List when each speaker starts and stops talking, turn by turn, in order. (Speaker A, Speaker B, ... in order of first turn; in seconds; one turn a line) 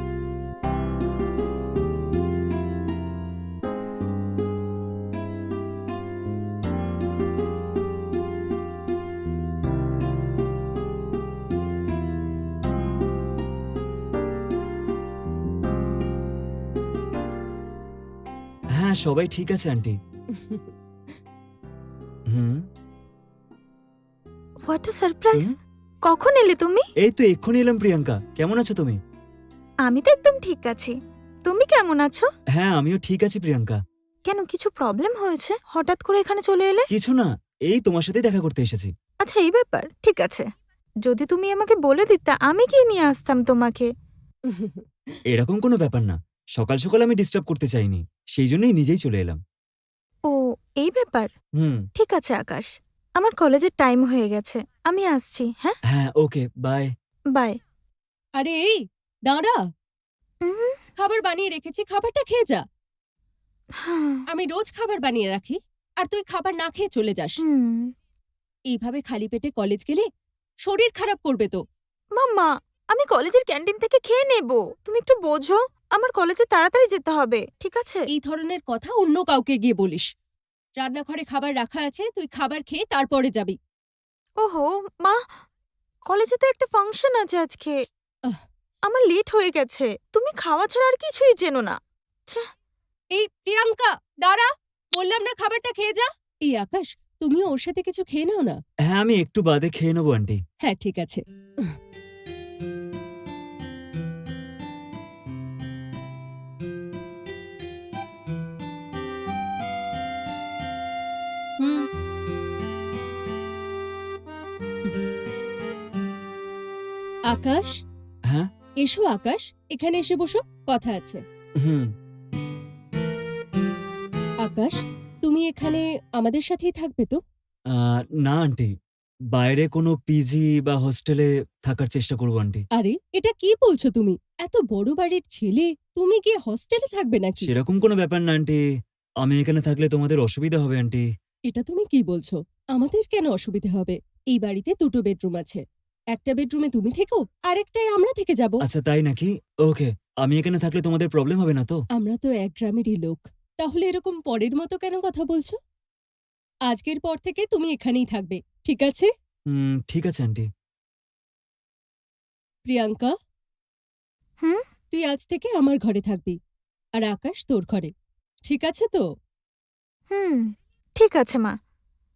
Speaker A: 18.8-20.0
Speaker B: 20.3-20.7
Speaker A: 22.3-22.6
Speaker C: 24.7-25.5
Speaker C: 26.1-26.9
Speaker A: 27.0-29.0
Speaker C: 29.9-32.3
Speaker A: 32.5-33.8
Speaker C: 34.3-36.9
Speaker A: 36.9-38.9
Speaker C: 39.2-40.5
Speaker C: 41.0-43.9
Speaker B: 44.5-44.9
Speaker A: 45.3-49.4
Speaker C: 50.3-51.3
Speaker A: 51.6-51.9
Speaker C: 52.0-55.8
Speaker A: 55.9-56.9
Speaker B: 58.4-59.6
Speaker C: 60.4-60.8
Speaker B: 61.0-62.6
Speaker C: 63.8-64.2
Speaker B: 64.3-67.4
Speaker C: 67.4-67.9
Speaker B: 68.7-70.1
Speaker B: 70.7-71.6
Speaker C: 72.2-78.1
Speaker B: 78.1-80.1
Speaker B: 80.8-83.6
Speaker C: 84.4-85.2
Speaker C: 86.1-87.8
Speaker C: 88.9-91.8
Speaker B: 93.2-98.6
Speaker A: 98.9-100.4
Speaker B: 100.6-101.8
Speaker B: 111.6-111.9
Speaker B: 117.3-117.8
Speaker B: 118.8-121.2
Speaker A: 121.6-121.9
Speaker B: 124.4-127.2
Speaker A: 127.7-128.7
Speaker A: 129.3-132.6
Speaker B: 132.8-137.5
Speaker A: 137.4-138.6
Speaker A: 139.2-141.1
Speaker B: 141.5-145.6
Speaker B: 146.1-148.6
Speaker A: 148.7-151.8
Speaker B: 152.0-155.6
Speaker B: 156.7-159.1
Speaker A: 159.5-160.5
Speaker B: 162.7-163.1
Speaker B: 164.9-166.4
Speaker B: 167.0-167.9
Speaker B: 168.5-169.0
Speaker C: 170.1-171.6